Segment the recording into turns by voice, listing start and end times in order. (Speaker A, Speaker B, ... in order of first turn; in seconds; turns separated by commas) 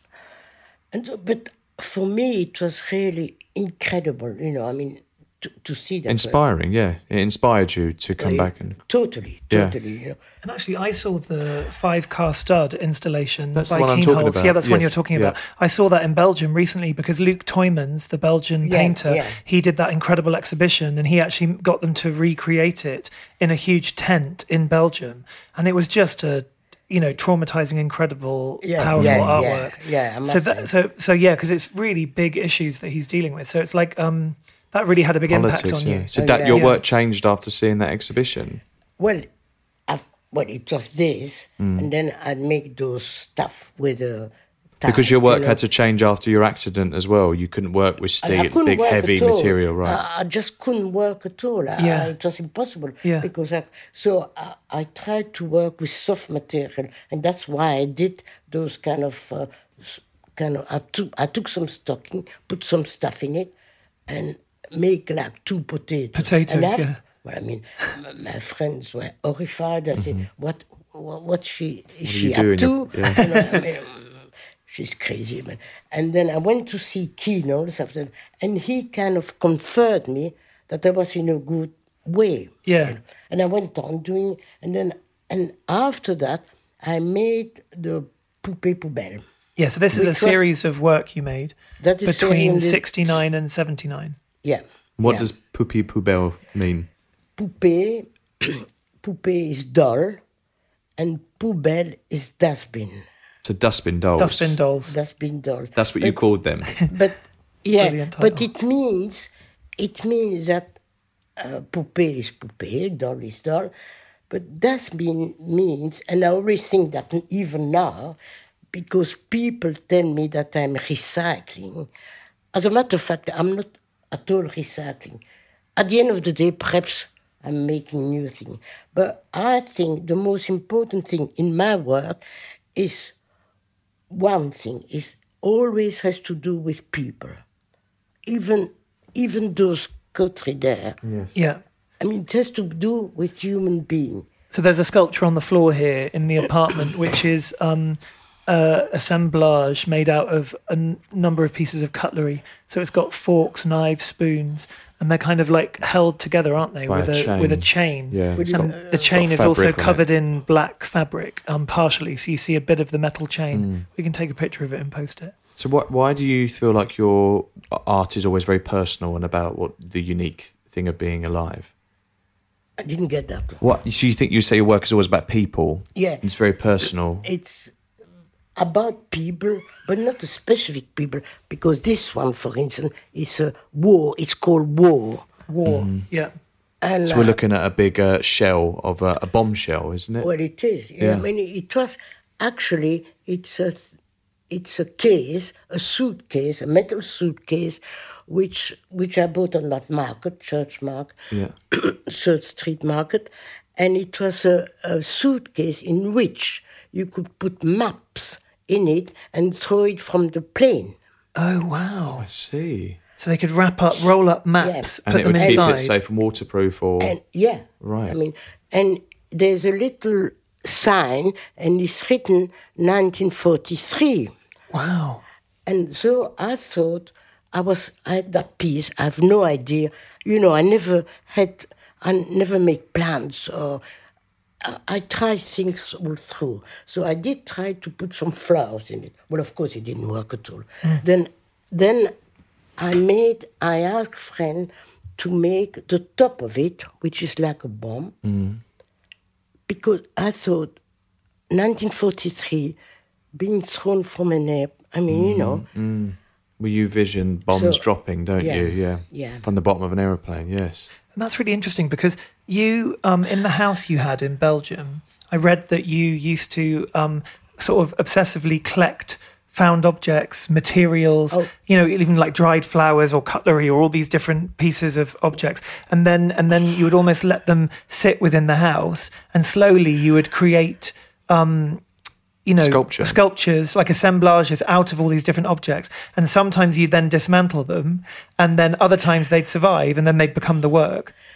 Speaker A: 0.9-6.4, Speaker B: 6.1-8.8, Speaker A: 8.2-10.2, Speaker C: 10.4-36.8, Speaker B: 13.6-15.4, Speaker A: 18.6-19.4, Speaker A: 28.6-30.7, Speaker B: 28.9-29.5, Speaker B: 35.3-38.6, Speaker A: 36.1-36.7, Speaker A: 39.0-39.3, Speaker A: 39.9-45.6, Speaker B: 41.6-41.9, Speaker B: 44.9-50.0, Speaker A: 48.2-63.5, Speaker C: 51.8-52.1, Speaker A: 64.1-89.2, Speaker C: 66.2-67.0, Speaker B: 70.0-70.2, Speaker B: 72.0-73.3, Speaker C: 82.7-83.0, Speaker C: 89.6-94.2, Speaker A: 89.9-90.4, Speaker A: 91.8-93.1, Speaker A: 94.4-95.3, Speaker B: 95.0-96.9, Speaker A: 97.4-100.2, Speaker A: 101.0-103.0, Speaker B: 103.4-104.6, Speaker C: 104.2-105.0, Speaker A: 104.9-106.2, Speaker B: 105.8-106.8, Speaker A: 106.8-110.8, Speaker C: 107.8-108.5, Speaker A: 111.4-113.7, Speaker A: 114.3-118.2, Speaker A: 118.7-121.9, Speaker A: 122.5-125.2, Speaker A: 125.8-132.2, Speaker A: 132.8-133.1, Speaker A: 134.1-137.4, Speaker A: 138.3-141.0, Speaker B: 141.0-141.4, Speaker C: 141.3-141.6, Speaker A: 142.0-144.3, Speaker C: 144.5-165.3, Speaker B: 156.9-160.1, Speaker A: 158.4-159.2, Speaker B: 163.5-163.9, Speaker B: 165.6-171.7, Speaker A: 172.8-173.6, Speaker B: 173.6-177.3, Speaker A: 175.9-176.2, Speaker A: 177.2-177.7, Speaker A: 178.6-185.3, Speaker C: 185.5-186.3, Speaker B: 185.7-186.1, Speaker A: 186.8-187.4, Speaker B: 187.1-190.3, Speaker A: 190.2-194.0, Speaker B: 191.0-191.2, Speaker A: 194.5-201.2, Speaker A: 201.7-211.0, Speaker C: 211.4-212.3, Speaker B: 212.1-213.0, Speaker C: 213.2-216.0, Speaker A: 214.6-215.8, Speaker B: 215.1-217.2, Speaker A: 217.0-224.3, Speaker B: 217.8-218.2, Speaker C: 224.7-225.2, Speaker A: 225.7-233.8, Speaker A: 234.6-242.1, Speaker A: 242.8-248.2, Speaker B: 248.2-248.6, Speaker A: 249.7-250.7, Speaker A: 251.5-252.8, Speaker A: 253.4-255.7, Speaker B: 255.1-260.9, Speaker A: 257.5-257.9, Speaker A: 258.4-259.5, Speaker C: 261.0-281.8, Speaker C: 282.5-291.1, Speaker B: 282.6-283.2